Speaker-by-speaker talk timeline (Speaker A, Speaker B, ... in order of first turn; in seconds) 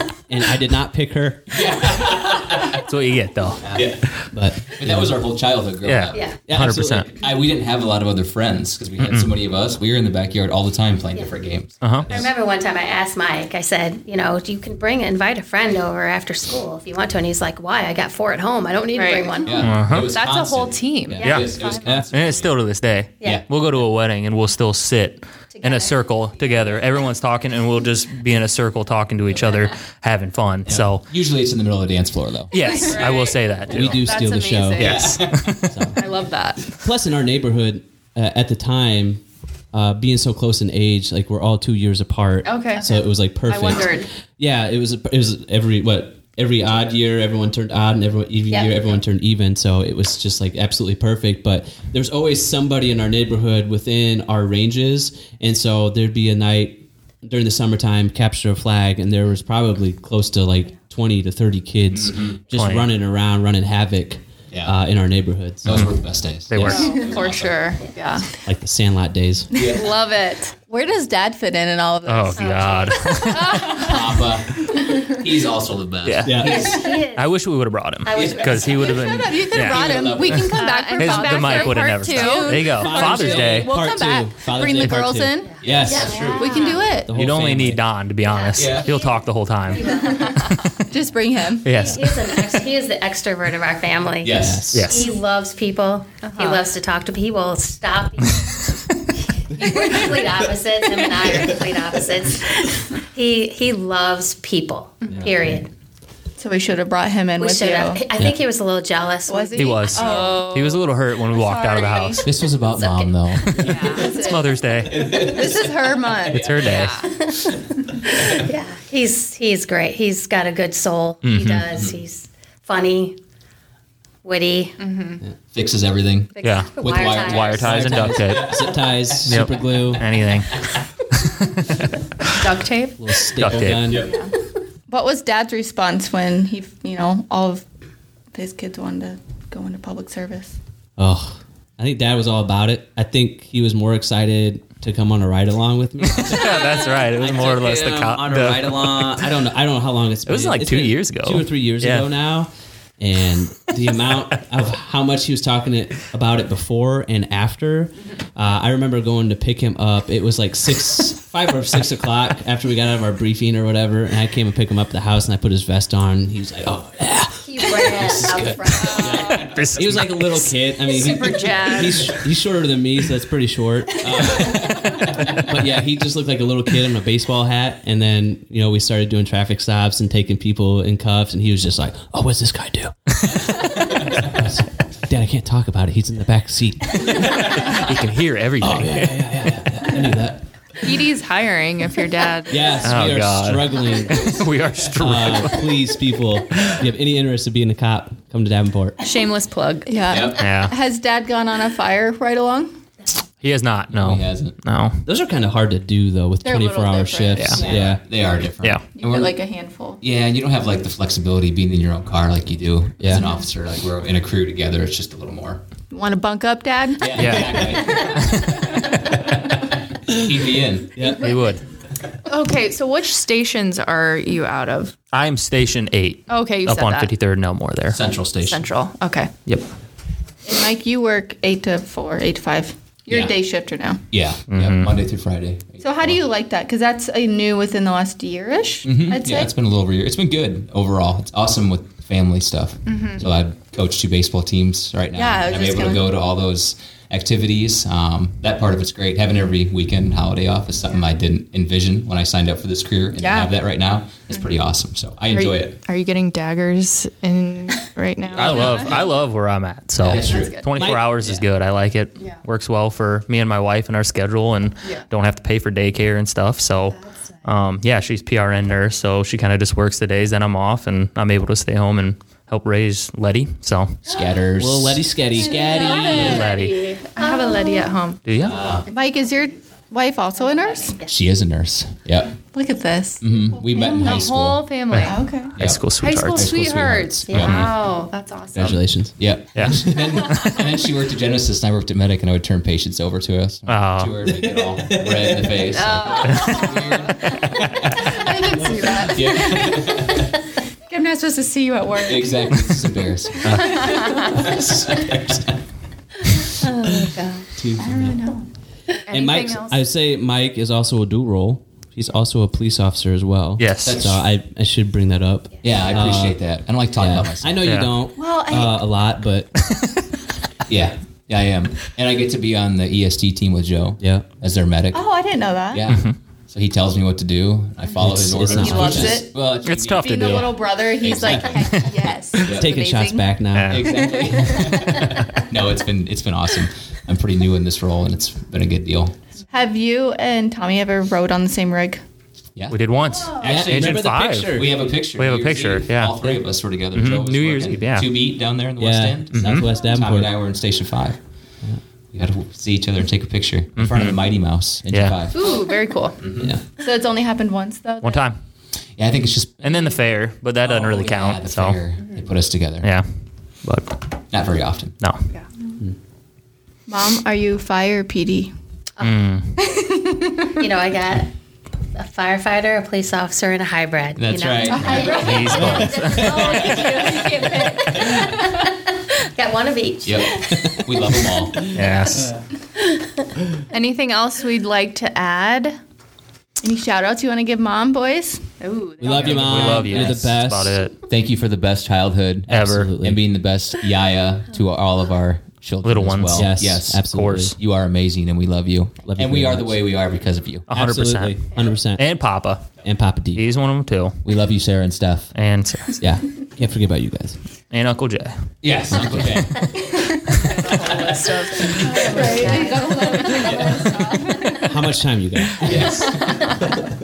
Speaker A: 0.3-1.7, 4.3-5.1, 6.5-7.1, 21.8-22.1, 33.7-35.1, 35.6-36.1, 36.7-65.9, 68.4-69.7, 76.2-76.6, 82.7-86.2, 86.8-87.8, 94.3-95.0, 127.6-130.1, 133.0-134.1, 141.0-187.9, 188.6-190.4, 192.5-194.4, 195.0-199.0, 205.0-208.0, 213.0-213.2, 220.9-221.3, 260.8-261.4, 274.6-276.4, 288.5-290.2, 294.3-295.6, 304.4-305.1, 307.5-308.3, 309.1-316.4, 317.0-319.6, 324.0-324.2, 328.0-329.2, 332.4-334.0, 343.4-344.7, 348.8-350.3, 389.0-390.9, 392.5-393.2, 396.3-397.6, 399.1-399.8, 400.7-402.1, 402.8-403.4, 406.0-407.4, 414.6-416.9
Speaker B: 1.5-2.9, 3.6-4.0, 4.7-6.2, 7.1-12.3, 19.4-22.6, 30.7-33.0, 34.8-35.6, 61.9-62.4, 65.6-67.8, 69.5-69.9, 73.7-76.8, 78.1-80.6, 85.6-86.7, 88.5-88.9, 94.2-94.7, 112.2-114.0, 114.8-117.5, 125.5-129.2, 133.8-134.1, 168.2-170.0, 174.3-175.5, 183.6-184.3, 200.1-200.4, 204.0-204.6, 207.6-209.3, 210.0-215.6, 217.0-221.1, 227.9-228.7, 233.1-233.3, 234.1-236.2, 238.8-255.8, 258.4-258.7, 260.0-260.7, 274.1-275.2, 278.4-278.9, 281.1-282.4, 283.2-284.7, 285.6-287.7, 288.6-298.3, 298.9-300.3, 302.0-305.5, 313.9-314.2, 315.6-317.6, 320.7-325.0, 325.7-332.7, 333.7-339.1, 343.3-351.2, 352.1-355.6, 356.2-356.5, 359.0-360.0, 360.6-362.9, 364.3-365.0, 374.2-376.9, 380.0-381.7, 391.1-397.1, 397.6-400.7, 404.2-405.3, 408.6-412.2, 413.3-414.0, 415.6-416.6
Speaker C: 2.7-4.2, 5.8-7.1, 9.0-9.3, 11.8-12.1, 19.6-20.1, 21.2-31.1, 32.5-34.0, 34.8-35.7, 62.5-62.9, 65.7-65.9, 66.5-67.0, 72.0-73.9, 76.0-80.4, 81.0-83.8, 87.1-90.8, 91.6-92.3, 94.7-95.1, 109.5-112.3, 113.4-115.2, 116.3-117.0, 121.2-121.6, 126.4-128.6, 129.3-132.3, 133.3-134.0, 146.1-149.3, 150.3-152.1, 169.3-170.5, 187.2-189.3, 192.8-195.7, 200.3-200.7, 203.4-205.0, 207.3-207.6, 217.1-219.1, 221.1-221.6, 225.1-228.0, 234.5-234.9, 258.3-274.1, 276.1-276.8, 278.2-278.6, 284.9-286.6, 287.3-287.8, 289.5-290.6, 293.7-294.1, 303.4-303.9, 313.6-314.0, 317.6-317.9, 325.9-326.1, 329.6-330.6, 331.4-331.9, 333.5-334.0, 342.7-344.6, 345.1-346.4, 346.9-348.1, 349.3-349.6, 353.8-354.2, 354.9-355.2, 358.0-358.4, 359.6-361.8, 362.8-363.1, 363.6-363.9, 365.0-365.2, 369.0-369.6, 375.0-376.4, 381.7-382.3, 389.1-390.9, 392.5-392.9, 395.8-397.6, 400.7-402.8, 403.3-404.2, 405.3-406.0, 407.7-408.5, 409.2-409.4
Speaker D: 6.1-6.4, 12.1-19.8, 21.1-21.7, 25.5-26.7, 72.3-73.4, 76.4-77.4, 78.0-79.0, 85.5-86.8, 88.2-90.5, 91.7-98.7, 99.5-105.7, 107.4-110.0, 112.8-113.7, 117.0-117.5, 118.0-123.2, 124.2-124.8, 126.3-127.7, 167.4-169.4, 277.2-277.9, 287.3-288.0, 306.6-307.5, 370.6-371.3, 371.9-375.1, 377.8-381.1, 382.2-383.2, 411.8-413.2
Speaker E: 18.9-21.8, 32.5-35.4, 35.9-36.8, 42.4-44.1, 66.6-68.3, 69.7-70.6, 73.3-74.0, 80.5-83.2, 86.3-87.0, 96.2-96.6, 109.9-110.8, 113.6-114.4, 116.6-117.1, 124.8-125.2, 132.4-133.1, 168.8-169.2, 170.8-172.1, 190.8-192.9, 199.0-200.2, 222.3-225.0, 226.3-227.1, 228.4-229.3, 242.9-243.2, 253.2-253.5, 255.3-259.2, 260.2-260.6, 275.4-278.3, 283.7-288.8, 295.7-297.4, 298.9-299.6, 301.4-302.2, 303.7-304.3, 309.1-309.8, 355.3-356.2, 374.9-378.3, 383.7-385.8, 388.6-390.1, 410.3-414.7
Speaker F: 70.6-72.8, 79.0-85.5, 86.3-87.2, 90.9-91.7, 106.4-108.0, 109.3-110.7, 111.3-112.2, 113.8-116.5, 134.9-137.6, 138.3-140.6, 199.9-202.7, 206.4-207.7, 208.9-210.0, 215.9-217.7, 230.4-234.0, 235.8-239.5, 245.1-246.0, 275.7-276.1, 278.9-281.0, 282.5-284.2, 285.0-285.6, 298.0-300.1, 300.9-302.3, 307.8-308.5, 318.1-318.8, 324.9-325.9, 328.4-329.3, 330.0-335.0, 339.5-342.0, 356.8-358.3, 366.9-368.5, 369.6-370.5, 374.7-378.2, 386.6-388.5, 411.8-414.6